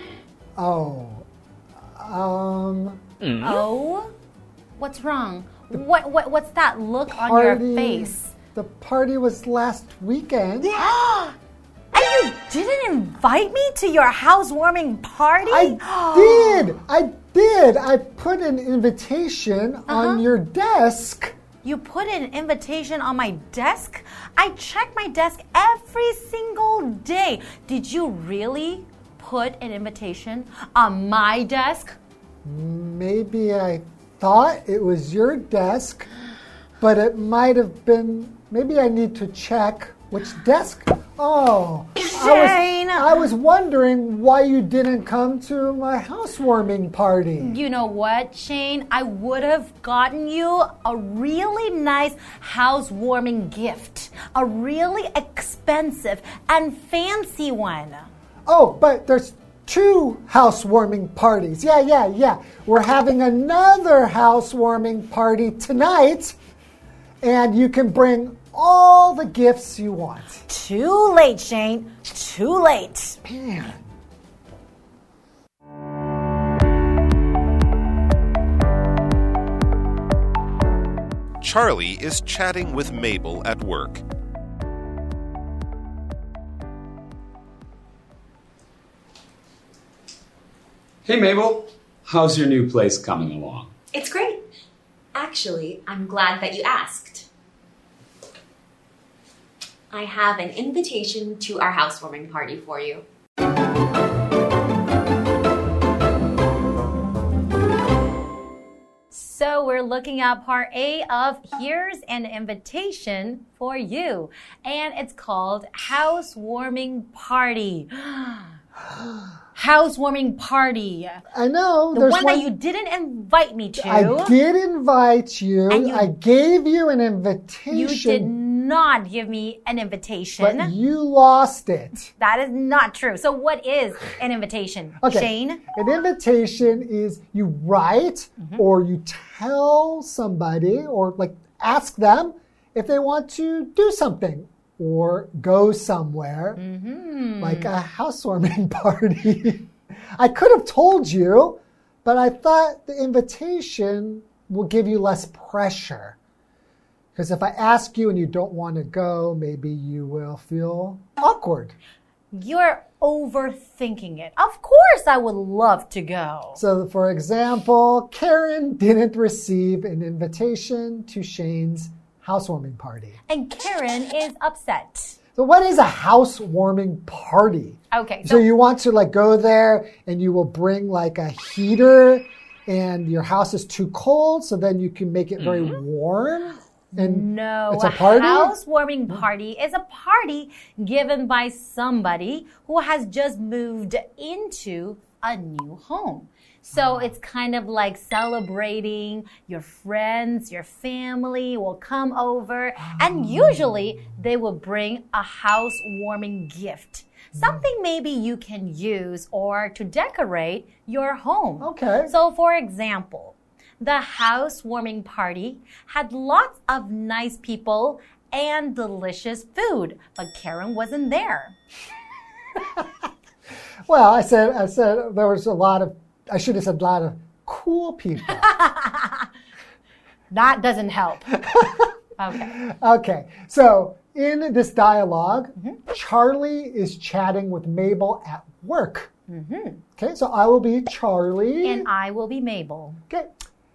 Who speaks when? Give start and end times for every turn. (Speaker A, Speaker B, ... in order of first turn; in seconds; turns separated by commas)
Speaker A: 0.6-1.3, Speaker A: 1.8-3.0, Speaker B: 3.4-4.1, Speaker B: 4.8-8.3, Speaker A: 7.1-10.8, Speaker B: 10.6-11.4, Speaker B: 11.9-16.8, Speaker A: 15.5-21.4, Speaker B: 19.9-20.2, Speaker B: 21.6-32.0, Speaker A: 32.4-36.1, Speaker A: 36.8-47.6, Speaker B: 42.0-43.1, Speaker B: 47.4-58.1, Speaker A: 58.5-66.4, Speaker A: 67.2-70.4, Speaker B: 70.5-73.2, Speaker A: 73.2-73.9, Speaker C: 81.4-84.0, Speaker D: 91.0-93.7, Speaker E: 93.9-94.4, Speaker E: 95.2-97.3, Speaker E: 99.9-103.0, Speaker B: 109.1-118.6, Speaker B: 119.5-121.2, Speaker A: 121.3-122.5, Speaker B: 121.9-124.3, Speaker A: 123.8-128.3, Speaker B: 125.7-126.1, Speaker B: 127.7-130.7, Speaker A: 130.4-132.1, Speaker B: 132.2-135.7, Speaker A: 135.0-146.6, Speaker B: 146.6-147.7, Speaker A: 147.4-156.2, Speaker A: 157.2-161.8, Speaker B: 162.3-166.6, Speaker A: 166.6-173.2, Speaker B: 173.3-175.2, Speaker A: 175.4-188.6, Speaker B: 177.9-178.5, Speaker B: 186.9-221.6, Speaker A: 196.8-197.1, Speaker A: 202.8-203.9, Speaker A: 207.3-207.7, Speaker A: 211.6-212.1, Speaker A: 223.9-228.5, Speaker B: 228.5-229.2, Speaker B: 230.3-231.5, Speaker A: 231.5-231.9, Speaker B: 232.2-232.6, Speaker A: 232.4-239.1, Speaker B: 239.3-239.8, Speaker A: 240.0-241.9, Speaker B: 241.6-243.0